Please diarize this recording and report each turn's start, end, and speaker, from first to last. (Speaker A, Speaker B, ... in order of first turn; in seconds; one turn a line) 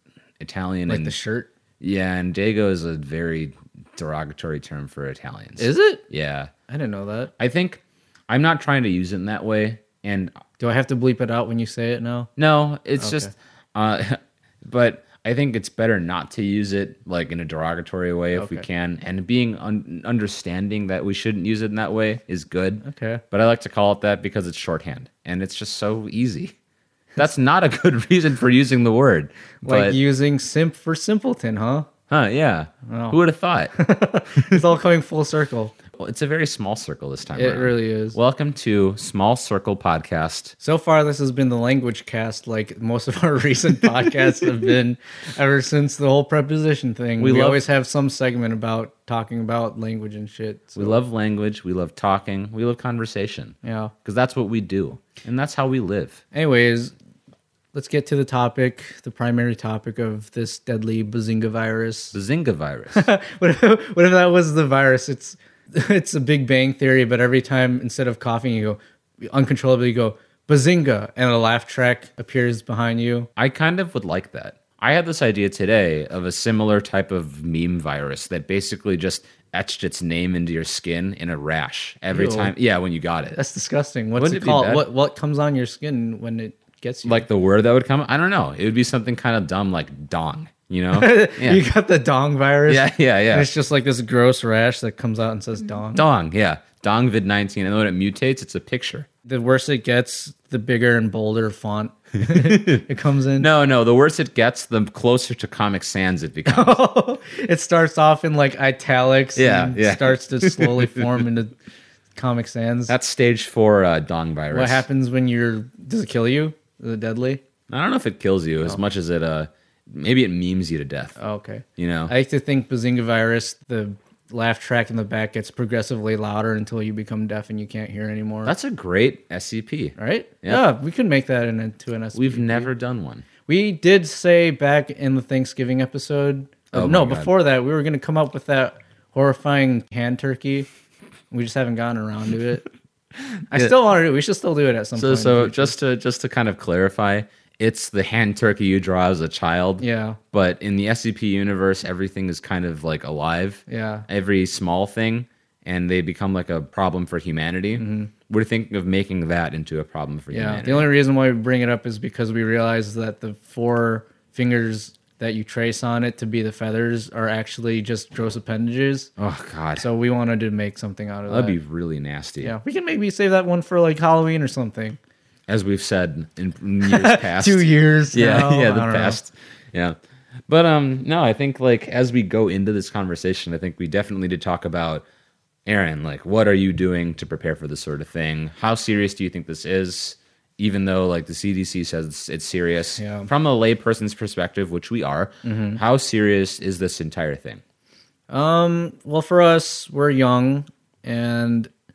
Speaker A: 0.4-1.1
Speaker B: 0.9-1.5
Speaker A: 1.8-6.5
Speaker B: 5.6-6.0
Speaker B: 6.7-7.3
Speaker A: 7.4-10.4
Speaker B: 10.6-12.3
Speaker A: 12.4-26.6
Speaker B: 13.0-13.3
Speaker B: 18.3-18.6
Speaker B: 22.8-23.2
Speaker A: 27.2-30.0
Speaker B: 29.6-31.9
Speaker A: 32.1-33.7
Speaker B: 32.9-33.2
Speaker B: 33.7-35.8
Speaker A: 34.3-34.6
Speaker A: 36.0-40.5
Speaker B: 37.3-38.2
Speaker B: 40.6-51.0
Speaker A: 47.2-47.6
Speaker A: 50.8-56.2
Speaker B: 53.6-53.9
Speaker B: 56.3-56.9
Speaker B: 57.7-62.2
Speaker A: 62.1-63.1
Speaker B: 62.9-73.3
Speaker A: 73.4-83.4
Speaker B: 82.1-82.5
Speaker B: 83.4-87.3
Speaker A: 84.2-84.8
Speaker A: 87.0-91.6
Speaker B: 90.9-96.0
Speaker A: 92.7-93.5
Speaker A: 95.9-99.1
Speaker B: 99.3-103.5
Speaker A: 102.2-102.9
Speaker A: 103.4-106.7
Speaker B: 106.5-111.5
Speaker A: 109.3-111.3
Speaker B: 112.2-113.0
Speaker A: 112.9-114.8
Speaker B: 114.5-117.4
Speaker A: 117.7-121.2
Speaker B: 121.2-128.5
Speaker A: 121.8-122.1
Speaker A: 128.5-130.7
Speaker B: 130.0-132.7
Speaker A: 132.2-133.2
Speaker B: 133.5-140.7
Speaker A: 136.7-137.3
Speaker B: 141.3-142.7
Speaker A: 143.2-143.8
Speaker B: 143.5-145.7
Speaker A: 145.0-160.9
Speaker B: 149.8-150.2
Speaker B: 153.7-154.1
Speaker B: 157.8-158.1
Speaker B: 160.3-169.1
Speaker A: 169.2-169.9
Speaker B: 169.8-171.6
Speaker A: 171.3-172.6
Speaker B: 172.4-175.0
Speaker A: 175.5-180.0
Speaker B: 176.8-179.2
Speaker A: 180.5-185.1
Speaker A: 185.7-197.6
Speaker B: 193.0-193.3
Speaker B: 195.4-195.8
Speaker B: 198.3-201.7